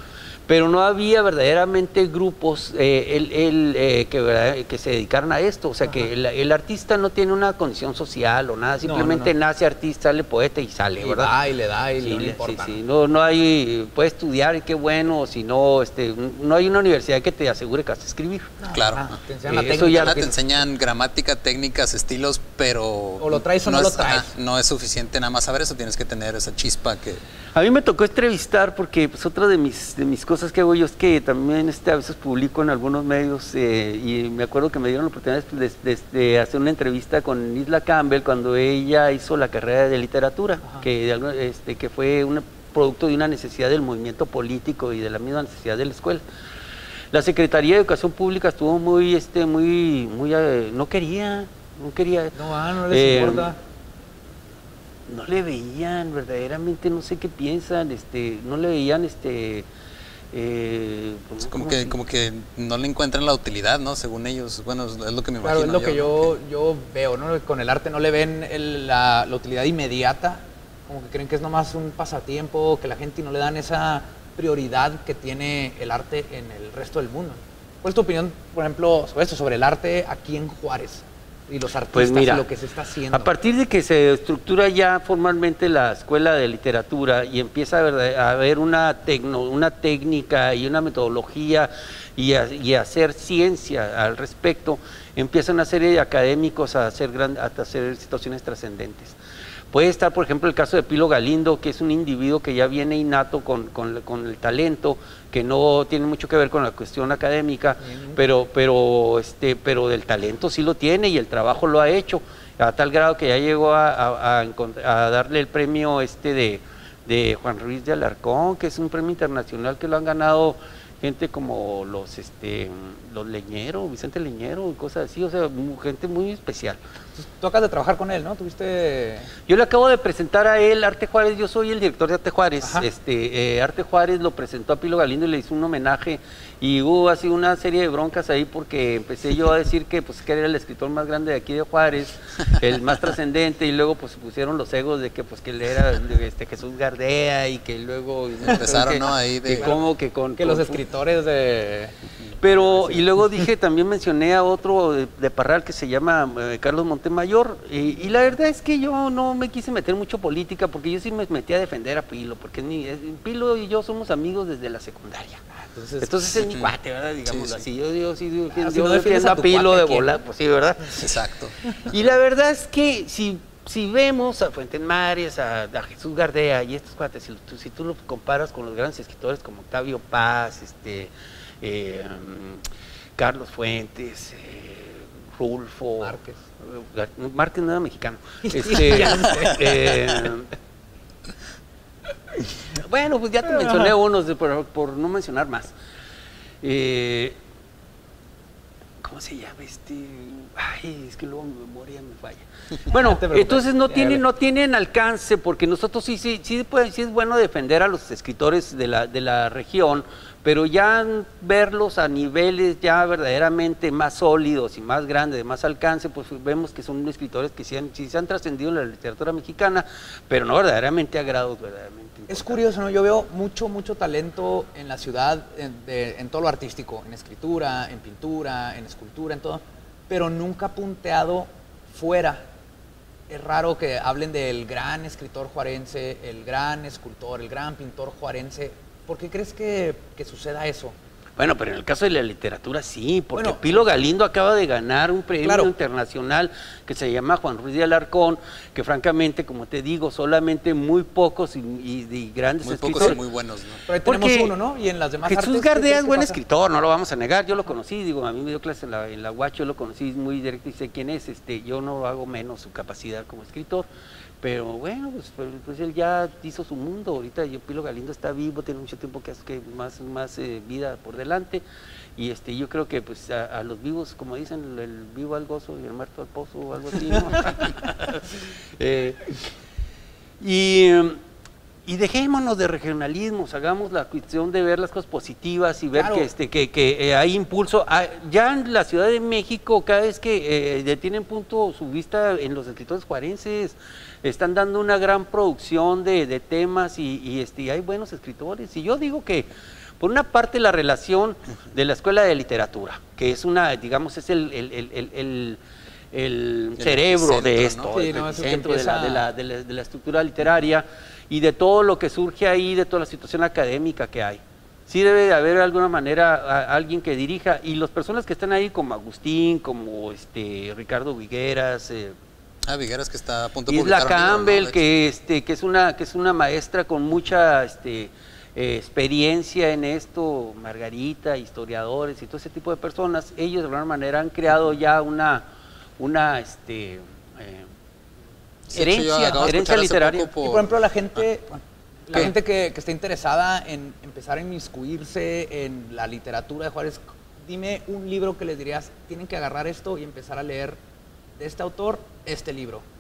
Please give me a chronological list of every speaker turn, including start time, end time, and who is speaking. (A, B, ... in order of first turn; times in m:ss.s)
0:00.5-0:11.3 A
0:05.8-0:06.1 B
0:08.8-0:09.3 B
0:11.0-0:12.8 B
0:12.0-0:18.5 A
0:18.6-0:20.4 B
0:18.7-0:19.2 C
0:19.5-0:20.2 A
0:19.9-0:27.2 C
0:23.2-0:24.4 B
0:27.6-0:46.2 A
0:47.1-0:52.3 A
0:52.4-0:53.6 B
0:52.9-0:53.5 A
0:55.1-0:59.6 A
1:00.3-1:02.0 A
1:01.4-1:06.4 C
1:05.4-1:23.3 B
1:21.9-1:22.5 A
1:23.1-1:39.2 A
1:39.7-2:06.8 A
1:47.8-1:48.2 B
2:07.2-2:09.3 B
2:09.5-2:30.8 A
2:12.6-2:12.9 B
2:28.4-2:29.7 C
2:29.6-2:29.8 B
2:30.4-2:32.0 B
2:32.4-2:45.3 A
2:45.5-2:46.4 B
2:46.0-2:51.0 A
2:46.4-2:46.7 C
2:47.2-2:47.6 C
2:48.5-2:50.1 B
2:51.0-2:52.0 C
2:51.9-3:01.1 A
3:01.6-3:02.6 A
3:03.2-3:06.0 A
3:06.0-3:06.4 B
3:06.6-3:10.4 A
3:08.4-3:10.2 B
3:09.2-3:09.8 C
3:12.7-3:15.7 A
3:13.6-3:13.9 B
3:16.6-3:17.3 A
3:19.0-3:42.6 A
3:22.9-3:24.2 B
3:42.3-3:52.4 B
3:53.3-4:01.0 B
4:01.4-4:13.2 A
4:03.4-4:04.0 B
4:05.4-4:05.7 B
4:12.6-4:13.8 C
4:13.9-4:16.4 B
4:14.0-4:14.5 A
4:15.2-4:23.9 A
4:24.4-4:31.6 A
4:32.2-4:38.2 A
4:38.8-4:39.2 A
4:40.4-4:41.1 A
4:41.9-4:59.4 A
4:45.9-4:46.3 B
5:00.0-5:05.6 A
5:06.1-5:14.4 A
5:06.8-5:08.0 C
5:07.9-5:09.3 B
5:14.9-5:22.0 A
5:22.6-5:24.9 C
5:23.7-5:35.2 A
5:36.0-5:36.9 A
5:38.7-5:41.2 C
5:38.7-5:40.3 A
5:40.4-5:50.8 B
5:51.4-5:52.8 B